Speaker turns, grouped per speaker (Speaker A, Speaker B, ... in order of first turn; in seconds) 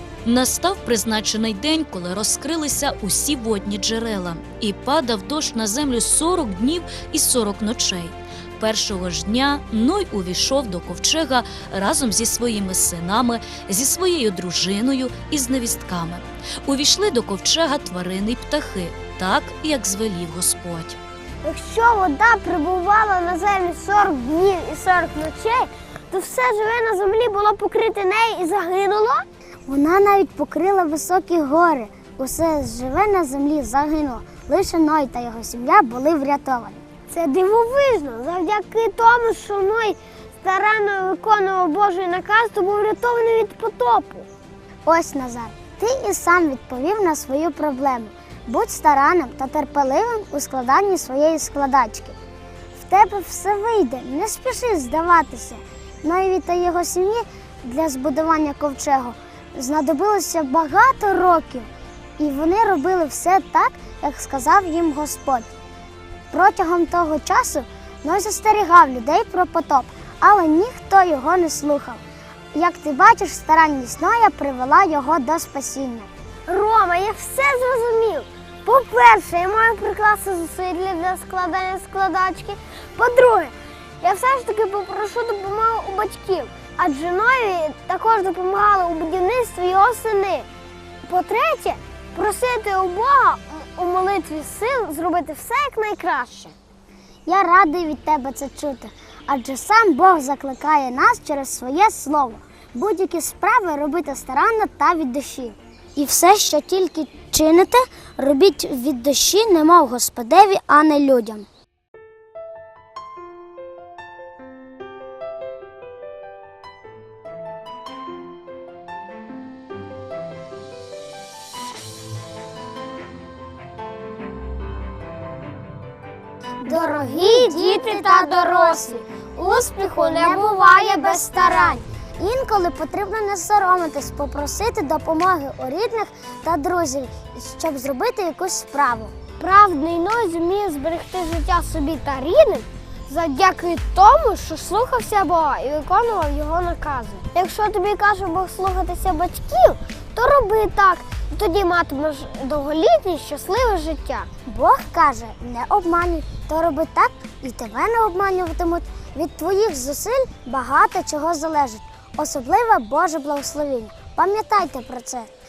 Speaker A: 0.2-21.0
Speaker B: 21.4-29.3, 37.1-44.3, 76.5-90.5, 91.0-96.5, 126.8-131.8, 139.3-154.3
Speaker C: 29.7-36.8, 44.9-52.2, 52.8-61.7, 62.2-65.5, 66.3-72.0, 72.5-76.1, 97.3-111.5, 126.6-128.4, 130.2-130.5, 132.2-139.2, 154.5-165.3